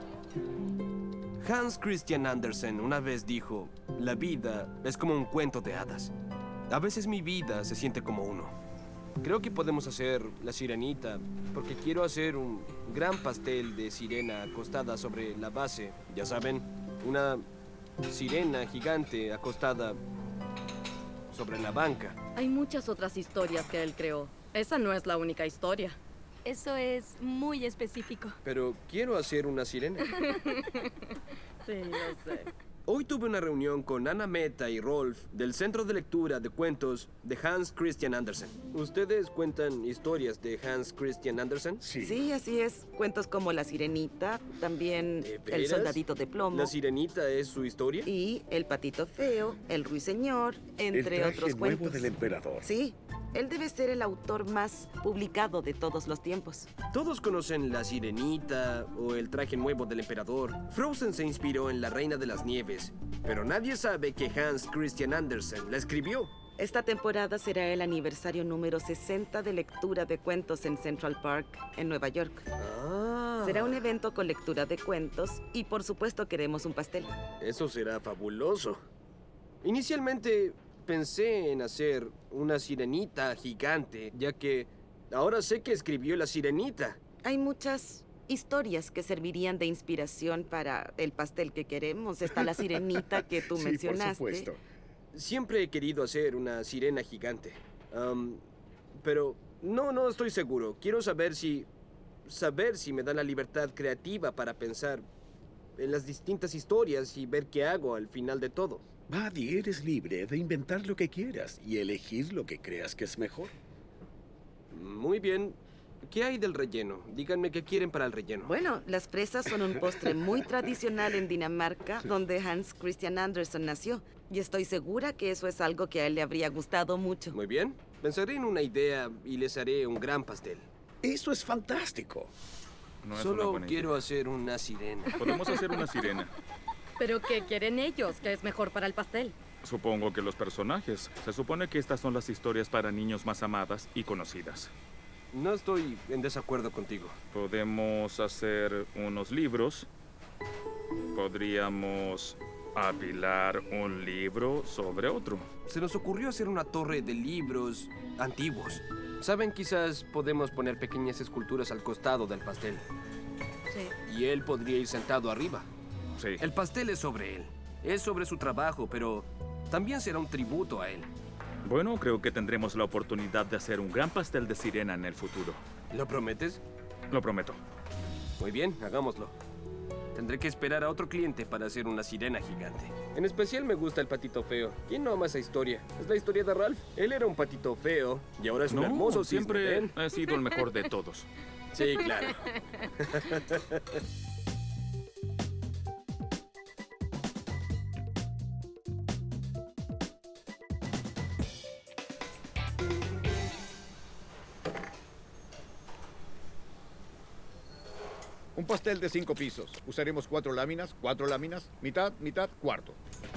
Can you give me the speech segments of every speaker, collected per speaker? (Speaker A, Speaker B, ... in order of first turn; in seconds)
Speaker A: 1.4-6.1, 6.7-8.6, 9.2-17.4, 18.0-20.0, 21.3-22.2, 28.4-30.1, 32.9-41.8, 45.2-48.1, 56.9-66.3, 72.6-73.8, 77.4-78.8, 79.6-87.0, 95.1-98.4, 99.0-101.7, 102.2-105.0, 105.8-108.8, 114.7-118.5, 127.3-130.7, 133.1-135.4, 145.3-147.2, 155.7-162.8, 164.0-165.7, 166.4-171.1, 175.9-176.6, 178.4-179.3, 180.1-189.9, 191.7-194.0
Speaker B: 22.4-26.0, 137.0-139.3
Speaker C: 26.4-28.3, 30.2-30.7
Speaker D: 41.8-42.3, 50.9-52.7, 93.4-94.6, 109.1-113.5, 131.0-132.3
Speaker E: 42.0-46.7, 48.0-52.1, 52.6-56.7, 66.6-72.4, 73.4-77.2, 87.2-94.5, 118.4-127.3
Speaker F: 133.0-134.0, 135.2-136.3, 139.6-144.7, 147.3-149.9, 151.1-155.5, 171.6-175.6, 177.1-177.6, 188.7-191.3
Speaker G: 208.5-213.0